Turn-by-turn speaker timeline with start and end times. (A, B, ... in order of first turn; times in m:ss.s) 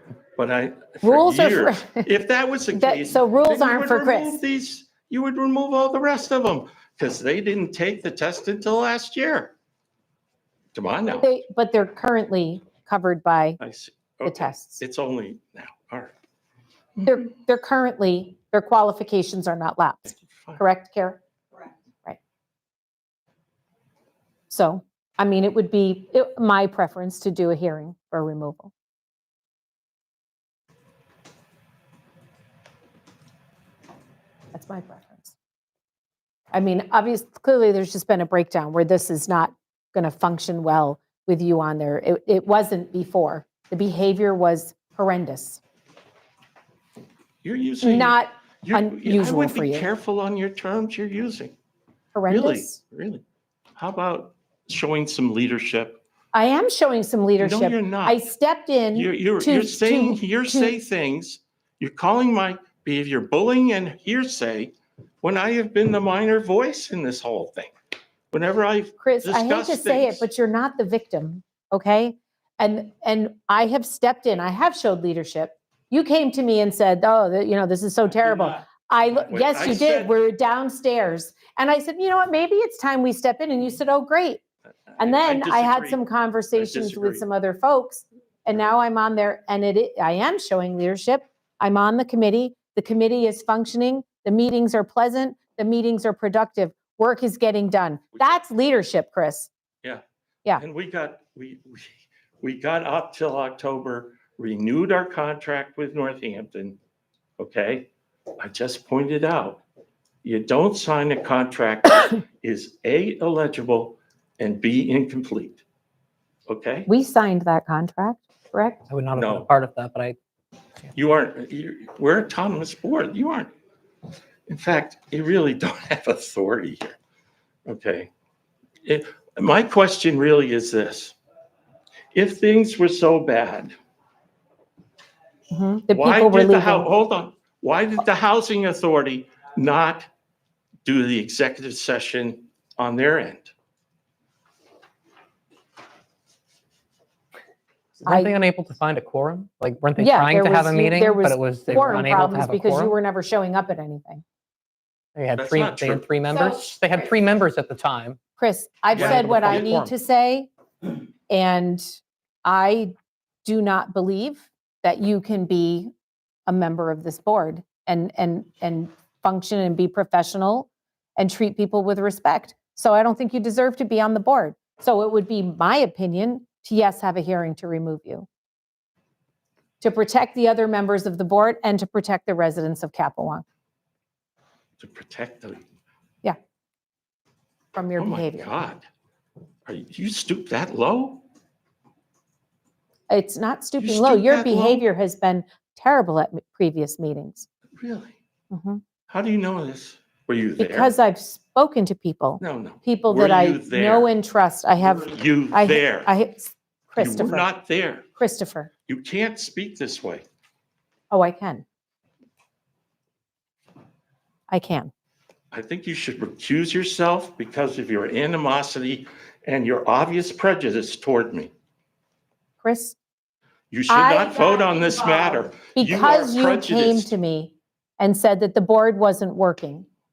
0:00.4-0:09.5 A
0:01.0-0:02.1 B
0:02.7-0:04.4 B
0:10.7-0:11.3 A
0:11.2-0:13.6 B
0:13.6-0:16.1 A
0:14.2-0:14.8 B
0:17.0-0:21.2 B
0:20.1-0:20.6 A
0:24.5-0:28.7 B
0:34.5-0:35.4 B
0:36.5-0:45.6 B
0:47.4-0:51.5 A
0:47.8-0:49.9 B
0:52.1-0:52.8 B
0:52.3-0:53.2 A
0:53.8-0:56.0 A
0:56.3-1:00.7 B
0:57.4-0:58.2 A
0:58.9-1:07.7 A
1:08.3-1:10.2 A
1:09.0-1:24.4 B
1:18.1-1:20.2 A
1:24.9-1:26.0 A
1:25.0-1:39.5 B
1:26.5-1:27.2 A
1:40.6-1:46.8 A
1:47.4-1:47.9 A
1:48.4-1:49.6 A
1:50.2-1:55.6 A
1:56.5-1:56.9 A
1:56.9-1:58.8 B
1:58.9-2:00.2 C
1:59.1-1:59.5 A
2:00.9-2:03.5 A
2:04.5-2:07.0 A
2:07.6-2:08.1 A
2:08.8-2:11.2 A
2:12.1-2:13.8 A
2:15.5-2:16.9 B
2:15.9-2:20.1 A
2:20.8-2:23.5 A
2:28.0-2:32.9 C
2:28.1-2:28.4 B
2:30.0-2:34.2 B
2:35.2-2:38.2 C
2:35.4-2:36.1 A
2:38.4-2:40.5 B
2:39.0-2:39.7 A
2:39.0-2:39.9 C
2:41.3-2:45.9 B
2:46.5-2:58.3 B
2:59.8-3:03.4 B
3:04.8-3:05.6 A
3:07.7-3:08.6 B
3:08.0-3:08.9 A
3:09.7-3:11.2 A
3:13.1-3:17.5 B
3:13.8-3:14.8 A
3:17.8-3:18.2 A
3:18.5-3:18.8 B
3:19.1-3:20.9 A
3:20.6-3:27.5 B
3:22.4-3:24.1 A
3:24.8-3:26.1 A
3:27.0-3:28.1 A
3:28.2-3:28.7 B
3:28.9-3:30.2 A
3:31.1-3:31.6 B
3:34.5-3:34.9 B
3:35.5-3:41.5 A
3:42.6-3:43.0 B
3:43.7-3:47.1 A
3:43.9-3:49.9 B